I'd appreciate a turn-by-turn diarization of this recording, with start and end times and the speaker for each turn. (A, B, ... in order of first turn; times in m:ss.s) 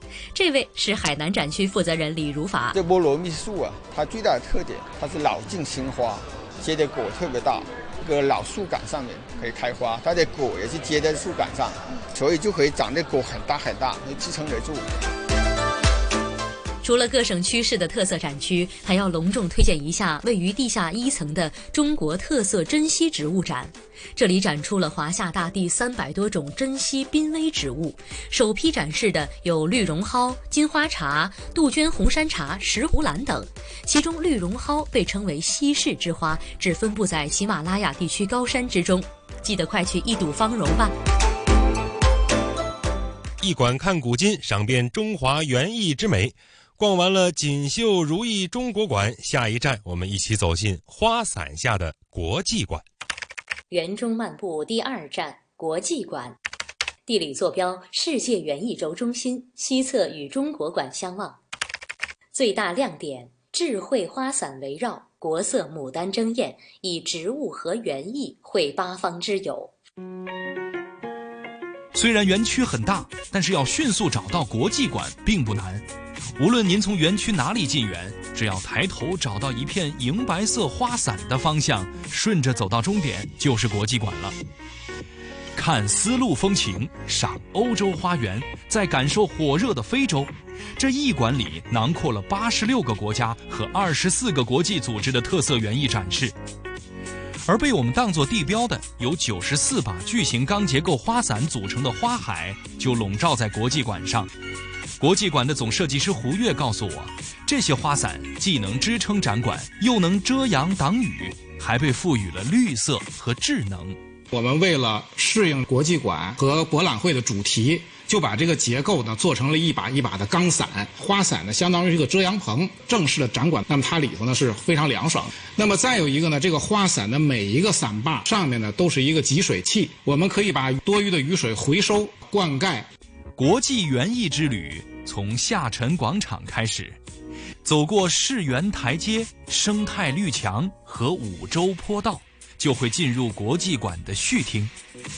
0:00.3-0:02.8 A
0:02.7-0:14.9 B
0:16.8-0:40.9 A
0:43.4-0:52.8 C
0:53.7-0:56.4 A
0:57.1-1:01.4 A
1:02.3-1:09.7 A
1:11.9-1:15.8 D
1:16.4-1:24.3 D
1:25.5-1:36.3 D
1:37.4-1:44.3 D
1:45.0-1:54.0 D
1:54.3-2:12.8 E
2:13.4-2:17.0 D
2:17.6-2:24.7 D